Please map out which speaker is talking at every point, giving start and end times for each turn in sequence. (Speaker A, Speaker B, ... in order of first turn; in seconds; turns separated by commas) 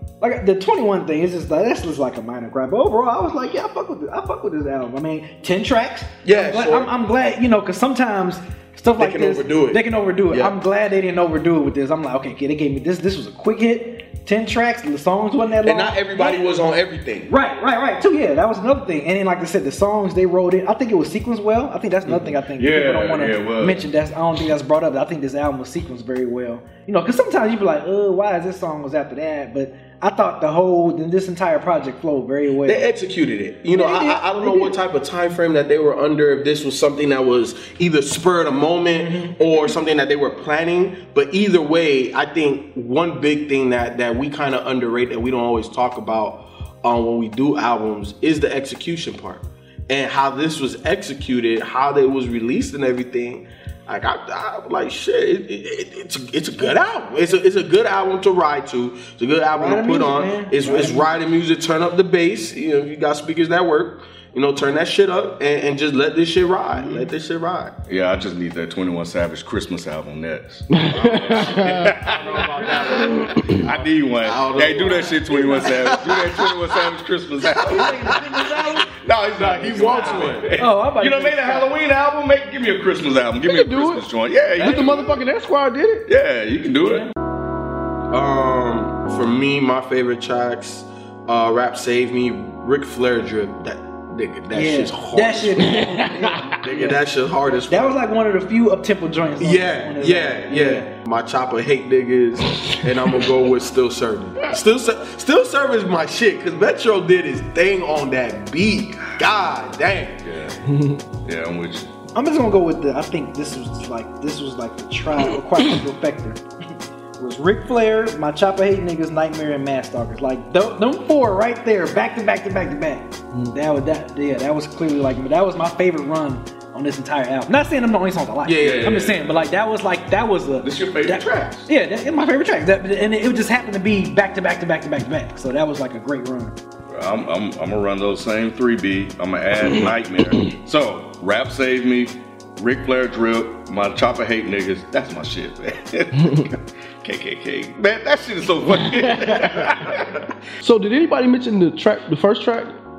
Speaker A: 0.2-16.5, Speaker B: 6.2-6.9, Speaker B: 8.9-10.5, Speaker B: 15.6-17.3, Speaker A: 17.3-32.9, Speaker C: 22.1-23.9, Speaker B: 32.6-67.7, Speaker A: 33.7-34.8, Speaker A: 39.0-39.7, Speaker A: 59.5-61.1, Speaker C: 67.9-78.1, Speaker D: 70.7-71.9, Speaker B: 71.3-73.6, Speaker A: 72.1-73.1, Speaker D: 72.9-73.4, Speaker B: 74.2-76.8, Speaker A: 77.5-78.9, Speaker B: 77.5-78.8, Speaker C: 78.8-85.0, Speaker B: 79.4-80.5, Speaker A: 79.5-81.7, Speaker D: 79.7-80.4, Speaker D: 83.4-84.0, Speaker D: 84.6-86.0, Speaker C: 86.1-87.1, Speaker A: 86.8-87.1, Speaker B: 88.1-95.8, Speaker A: 94.5-97.0, Speaker D: 95.6-96.6, Speaker B: 96.6-98.0, Speaker A: 97.7-100.9, Speaker B: 99.4-110.2, Speaker C: 110.2-110.6, Speaker D: 110.7-111.0, Speaker C: 111.2-111.9, Speaker A: 112.1-116.4, Speaker A: 117.2-136.5, Speaker B: 128.4-128.9, Speaker C: 128.6-129.3, Speaker C: 130.6-131.7, Speaker C: 136.9-150.3, Speaker D: 148.9-149.4, Speaker D: 150.6-152.8